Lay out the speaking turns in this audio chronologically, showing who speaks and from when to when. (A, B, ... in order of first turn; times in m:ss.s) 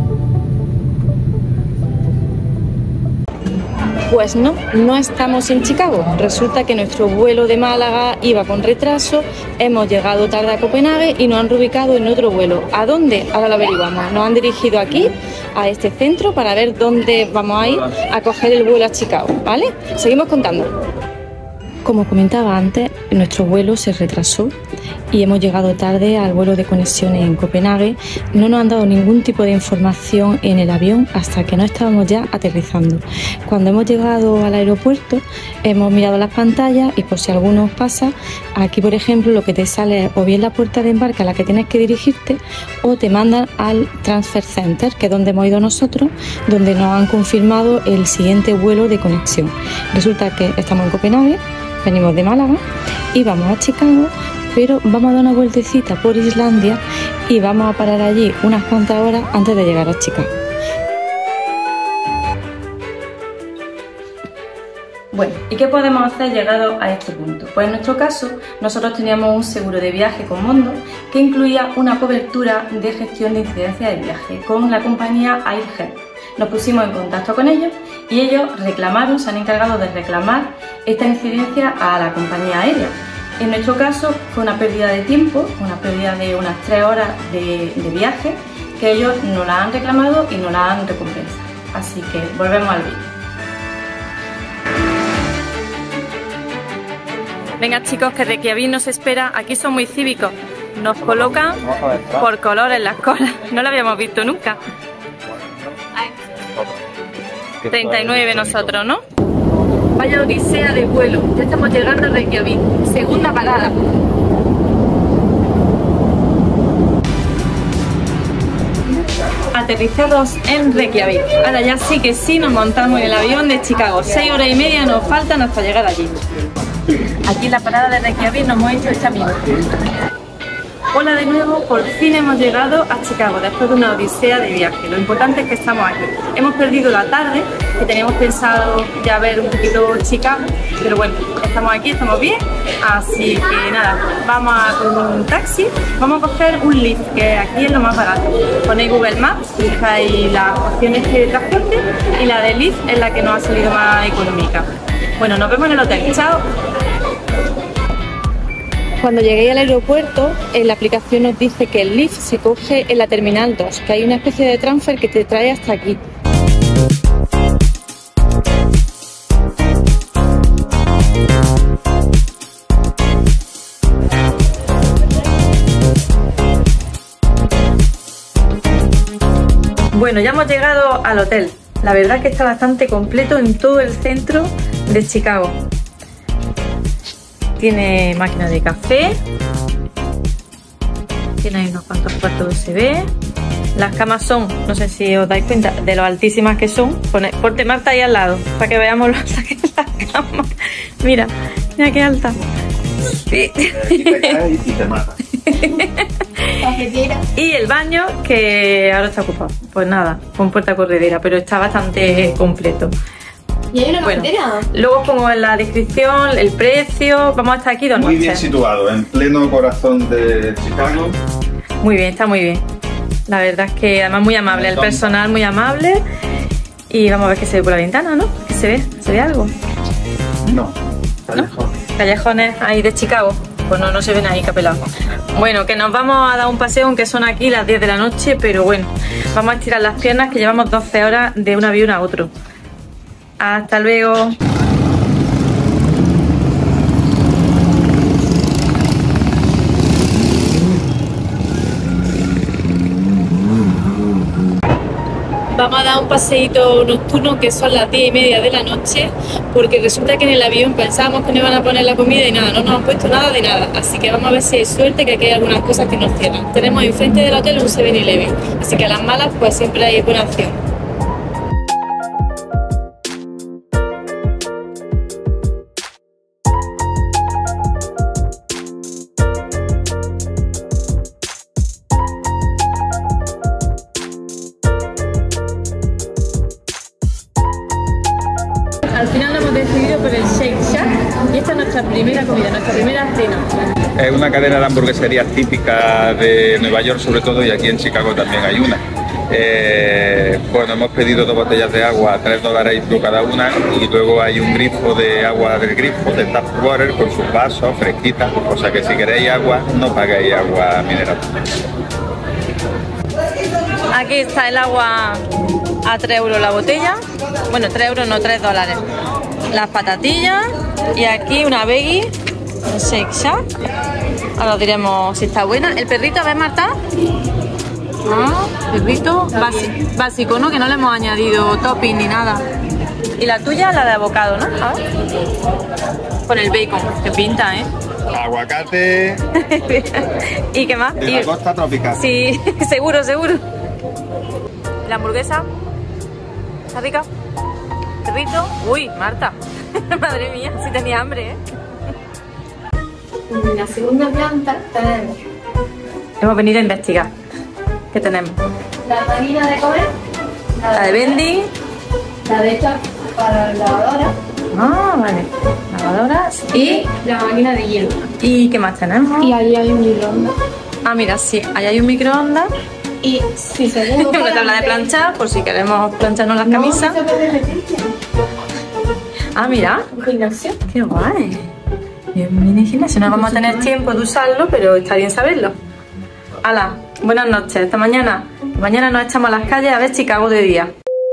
0:04.1-0:20.7 A
0:21.8-0:24.5 A
0:25.1-0:52.6 A
0:53.1-1:00.3 A
1:05.1-1:33.1 A
1:37.6-1:44.6 A
1:47.6-1:49.0 A
1:50.0-1:53.8 A
1:59.5-2:06.3 A
2:07.0-2:09.6 A
2:10.9-2:34.7 A
2:35.2-2:36.5 A
2:39.0-2:46.0 A
2:59.9-3:05.6 A
3:07.6-3:09.2 A
3:11.4-3:13.1 A
3:13.8-3:22.4 A
3:23.1-3:24.4 A
3:23.7-3:25.2 B
3:25.3-3:26.6 A
3:26.6-3:27.2 C
3:27.3-3:32.9 A
3:33.7-3:34.7 C
3:34.0-3:38.5 A
3:38.0-3:41.2 B
3:41.8-3:42.6 A
3:43.3-3:46.0 A
3:44.5-3:45.1 B
3:46.9-3:49.5 A
3:50.4-3:50.8 B
3:51.3-3:51.7 B
3:51.4-4:02.3 A
4:03.4-4:04.4 A
4:15.5-4:30.6 A
4:48.9-4:53.5 A
4:54.0-5:11.2 B
5:13.9-5:15.3 A
5:15.8-5:18.8 A
5:19.5-5:22.1 A
5:22.7-5:23.5 A
5:24.4-5:26.8 A
5:28.0-5:32.4 A
5:33.2-5:34.8 A
5:36.3-5:37.7 A
5:38.1-5:39.2 B
5:39.3-5:41.3 A
5:41.0-5:42.0 B
5:41.9-5:43.4 A
5:44.8-5:45.5 A
5:46.7-5:47.1 A
5:48.0-5:51.4 A
5:53.3-5:55.2 C
5:56.2-5:57.1 A
5:57.9-5:58.4 A
5:58.8-5:59.9 C
6:00.6-6:01.2 C
6:00.7-6:01.5 A
6:02.2-6:04.2 C
6:04.5-6:06.9 A
6:06.5-6:08.0 C
6:08.2-6:09.4 A
6:09.2-6:10.4 C
6:10.8-6:12.5 A
6:13.0-6:14.9 C
6:13.9-6:17.0 A
6:16.5-6:17.9 C
6:19.3-6:19.9 A
6:19.9-6:20.6 C
6:20.6-6:21.5 A
6:22.1-6:25.6 A
6:23.2-6:23.6 C
6:26.4-6:30.7 A